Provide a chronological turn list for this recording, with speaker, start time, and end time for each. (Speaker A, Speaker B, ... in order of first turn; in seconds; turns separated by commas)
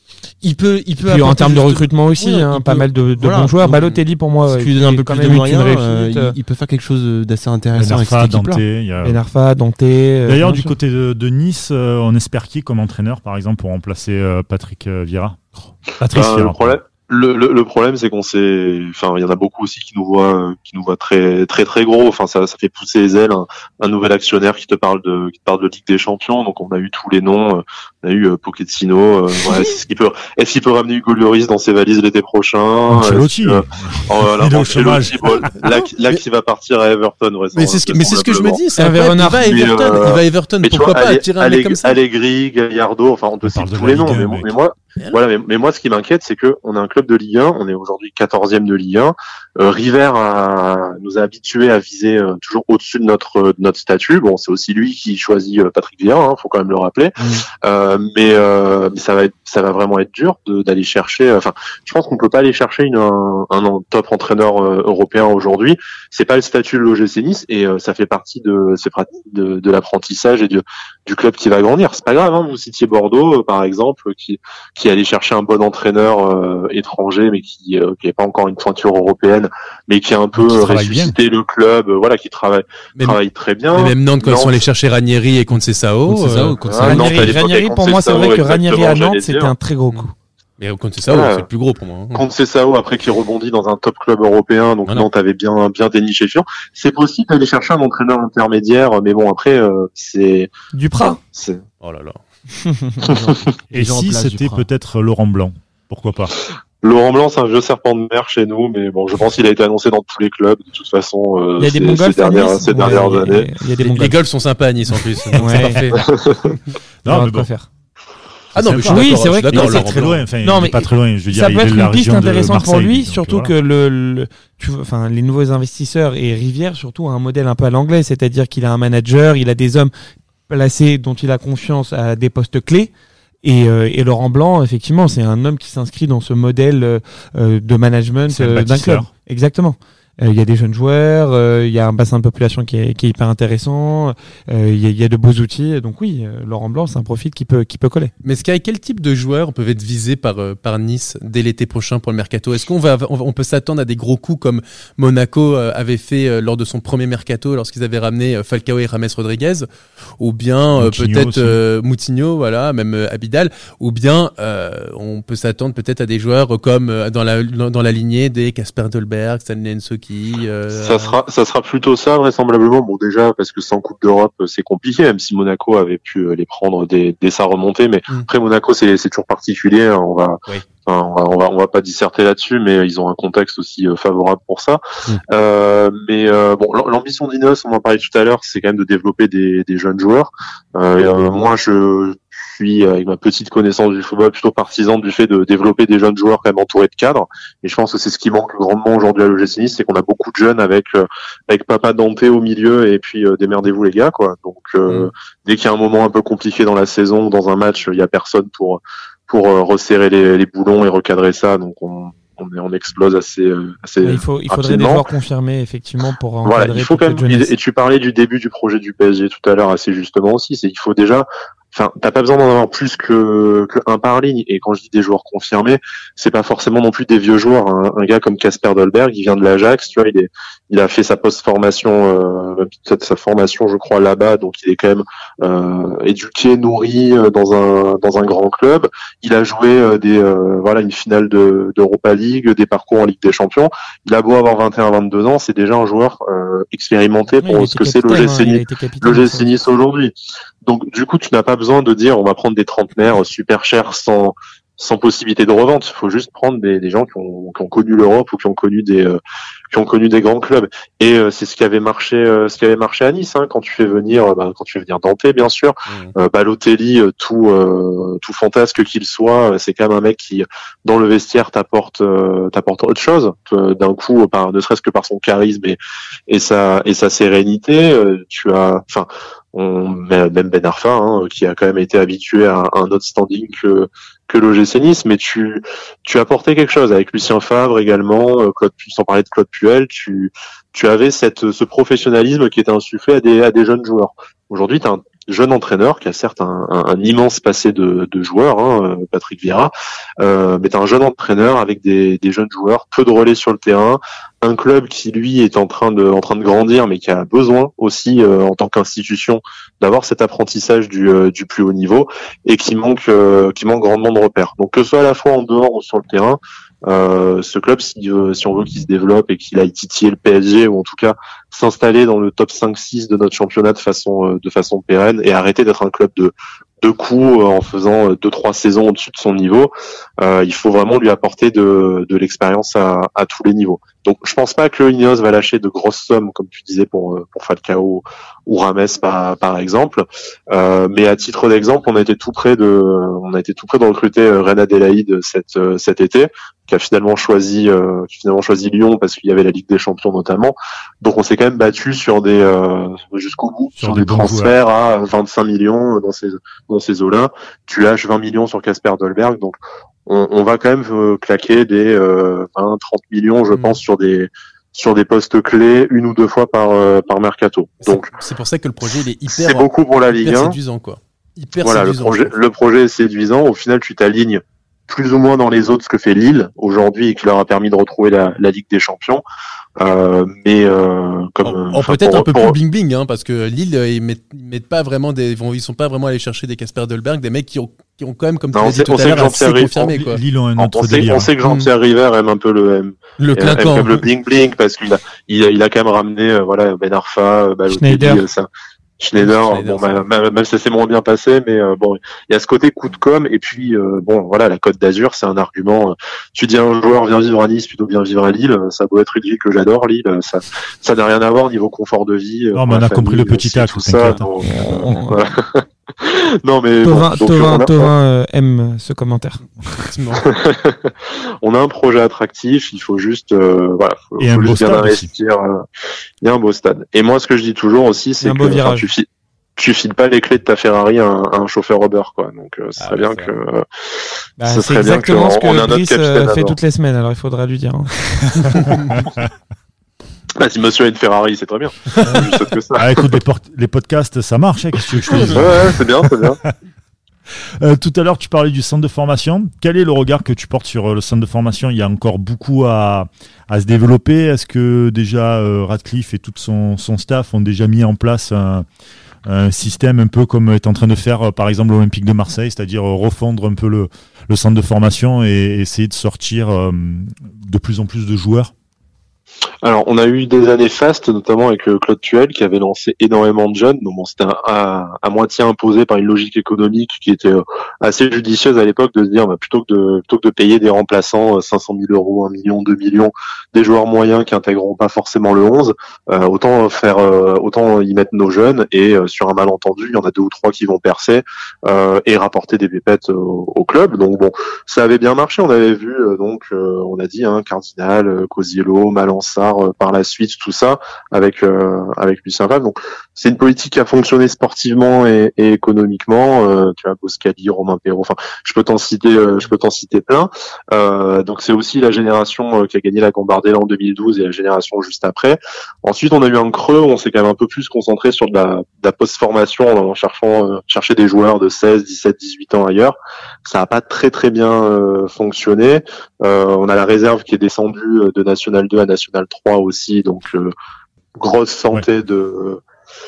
Speaker A: 0.4-3.9, Speaker B: 1.0-6.3, Speaker A: 4.5-8.6, Speaker C: 7.8-9.2, Speaker B: 9.0-10.8, Speaker C: 10.2-15.4, Speaker C: 16.0-16.8, Speaker D: 16.1-38.6, Speaker C: 32.9-35.5, Speaker E: 35.5-36.2, Speaker E: 37.5-42.0, Speaker B: 38.8-39.5, Speaker D: 39.3-84.6, Speaker C: 43.4-44.5, Speaker C: 80.3-81.1, Speaker E: 83.7-86.6, Speaker A: 86.1-87.3, Speaker D: 86.6-89.5, Speaker B: 86.8-90.1, Speaker E: 90.6-92.2, Speaker D: 91.0-91.5, Speaker D: 92.1-101.6, Speaker B: 100.7-101.2, Speaker E: 101.8-102.2, Speaker B: 102.7-103.0, Speaker A: 103.0-104.7, Speaker C: 103.7-106.3, Speaker D: 106.8-113.5, Speaker B: 111.6-114.1, Speaker E: 113.8-116.0, Speaker B: 115.3-116.0, Speaker D: 116.0-116.6, Speaker C: 117.0-117.5, Speaker B: 117.0-117.7, Speaker E: 118.5-120.2, Speaker C: 118.5-123.5, Speaker B: 118.9-129.9, Speaker B: 130.5-132.9, Speaker B: 133.4-148.1, Speaker C: 138.3-139.1, Speaker E: 148.2-159.7, Speaker E: 160.2-171.2, Speaker C: 160.7-161.6, Speaker D: 170.7-215.0, Speaker B: 214.0-217.5, Speaker D: 216.4-259.2, Speaker B: 247.4-249.5, Speaker D: 259.7-275.8, Speaker E: 265.9-266.1, Speaker D: 276.3-368.1, Speaker C: 353.8-354.5, Speaker E: 363.5-363.8, Speaker E: 367.8-372.4, Speaker D: 369.3-370.6, Speaker D: 371.6-379.2, Speaker D: 379.8-382.6, Speaker E: 381.4-390.2, Speaker D: 388.5-389.7, Speaker C: 389.0-391.3, Speaker D: 390.6-398.5, Speaker E: 391.4-391.7, Speaker E: 393.2-394.0, Speaker B: 397.7-398.2, Speaker D: 399.0-417.9, Speaker E: 399.2-400.0, Speaker C: 412.5-414.9, Speaker B: 414.4-415.2, Speaker B: 416.8-419.4, Speaker E: 419.7-420.2, Speaker D: 420.1-425.6, Speaker C: 424.2-425.1, Speaker D: 426.2-433.6, Speaker B: 428.2-428.9, Speaker E: 432.8-433.3, Speaker B: 434.4-437.9, Speaker D: 434.4-436.6, Speaker C: 438.4-439.3, Speaker E: 438.6-438.9, Speaker D: 440.4-443.1, Speaker E: 441.9-442.3, Speaker C: 442.7-446.5, Speaker D: 445.1-446.4, Speaker C: 447.6-458.6, Speaker C: 459.2-468.5, Speaker D: 469.6-530.5, Speaker D: 531.2-532.6